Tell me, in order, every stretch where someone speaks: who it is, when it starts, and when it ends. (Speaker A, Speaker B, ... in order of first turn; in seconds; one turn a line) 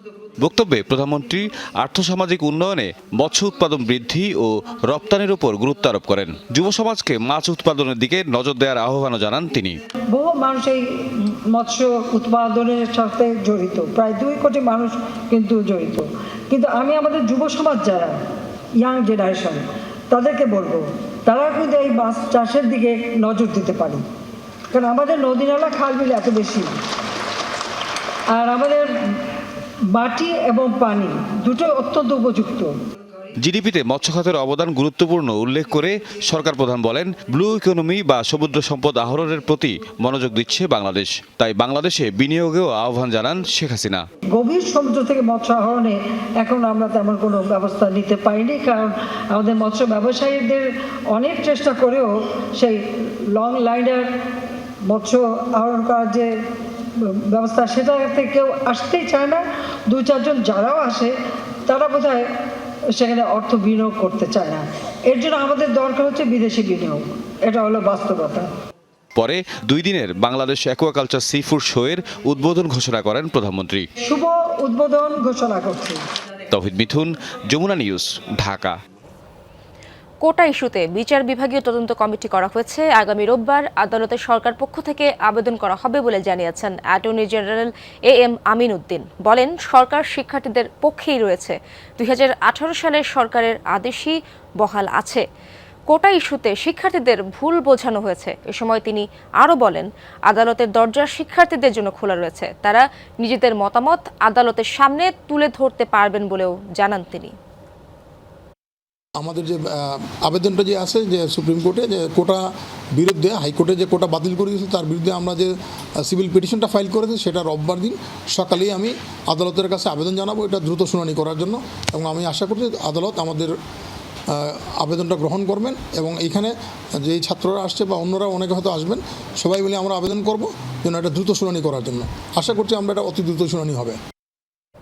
Speaker A: 0.4-9.8
Speaker B: 10.1-10.8
Speaker B: 11.5-18.2
Speaker B: 18.8-24.0
Speaker B: 24.7-26.7
Speaker B: 28.3-28.9
Speaker B: 29.9-32.7
Speaker A: 33.4-44.0
Speaker B: 44.3-52.8
Speaker B: 53.4-54.1
Speaker B: 54.9-56.3
Speaker B: 57.0-61.1
Speaker B: 61.7-62.2
Speaker B: 63.0-68.5
Speaker A: 69.1-73.9
Speaker B: 74.0-76.0
Speaker A: 76.5-78.8
Speaker C: 80.2-95.2
Speaker C: 95.9-107.3
Speaker D: 109.2-112.4
Speaker D: 113.0-115.5
Speaker D: 116.0-123.5
Speaker D: 124.3-134.0